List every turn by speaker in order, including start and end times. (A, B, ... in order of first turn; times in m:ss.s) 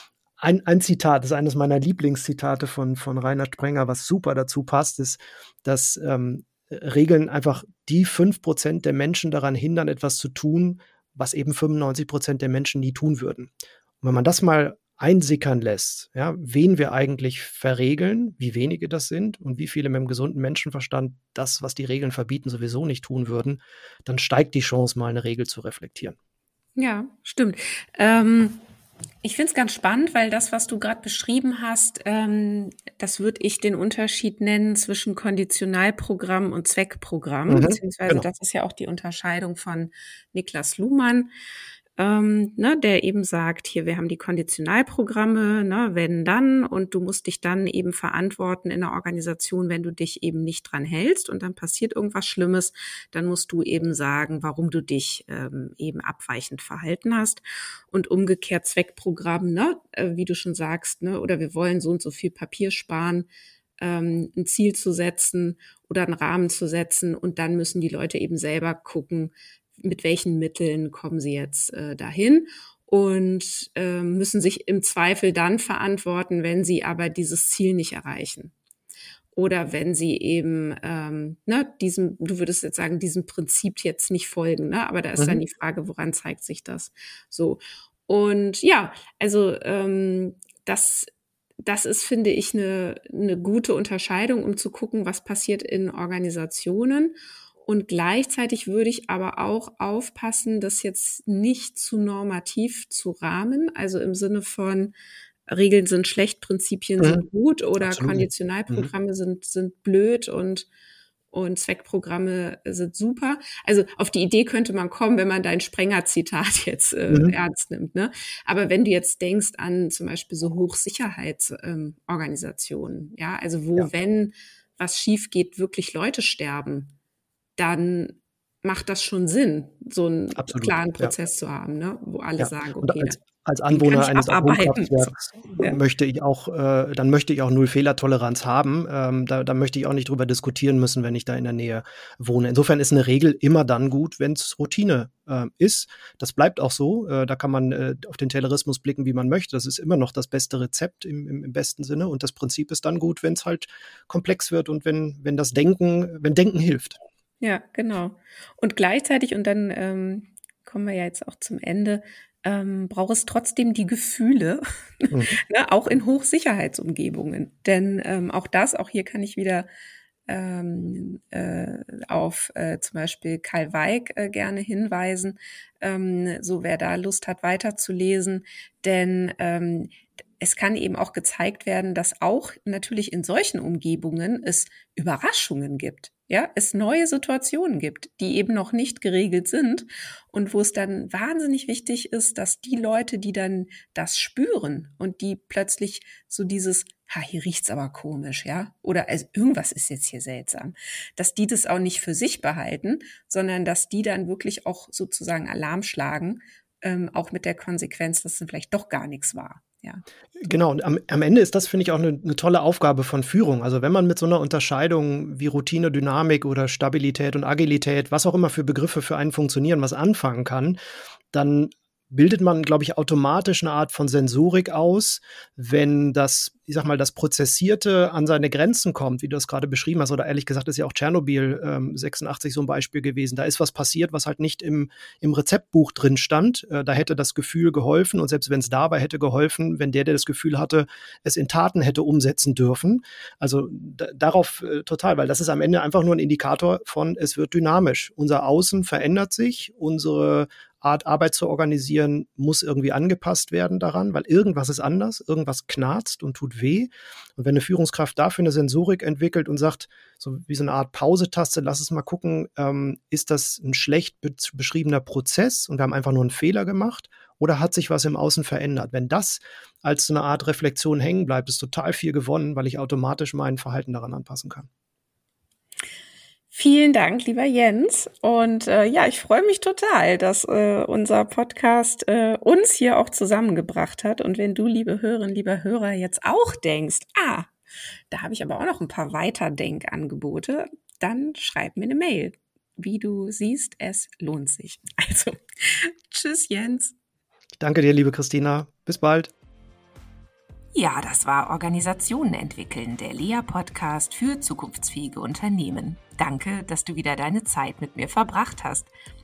0:00.4-0:26.1 A
0:26.8-0:28.6 B
0:29.2-0:41.3 B
0:37.5-0:38.2 A
0:42.0-1:03.3 B
1:03.8-1:18.5 B
1:19.3-1:31.1 B
1:31.6-1:44.9 B
1:45.5-1:50.7 B
1:47.0-1:47.2 A
1:47.8-1:48.9 A
1:51.3-2:06.9 B
1:57.1-1:57.3 A
2:07.6-2:15.8 B
2:10.3-2:11.1 A
2:12.4-2:37.0 A
2:37.4-2:49.7 B
2:45.1-2:45.4 A
2:50.3-3:30.0 B
3:30.4-3:40.8 A
3:41.3-4:34.7 A
4:36.5-4:47.5 B
4:48.1-4:56.9 B
4:57.6-4:59.3 A
5:00.7-5:08.9 B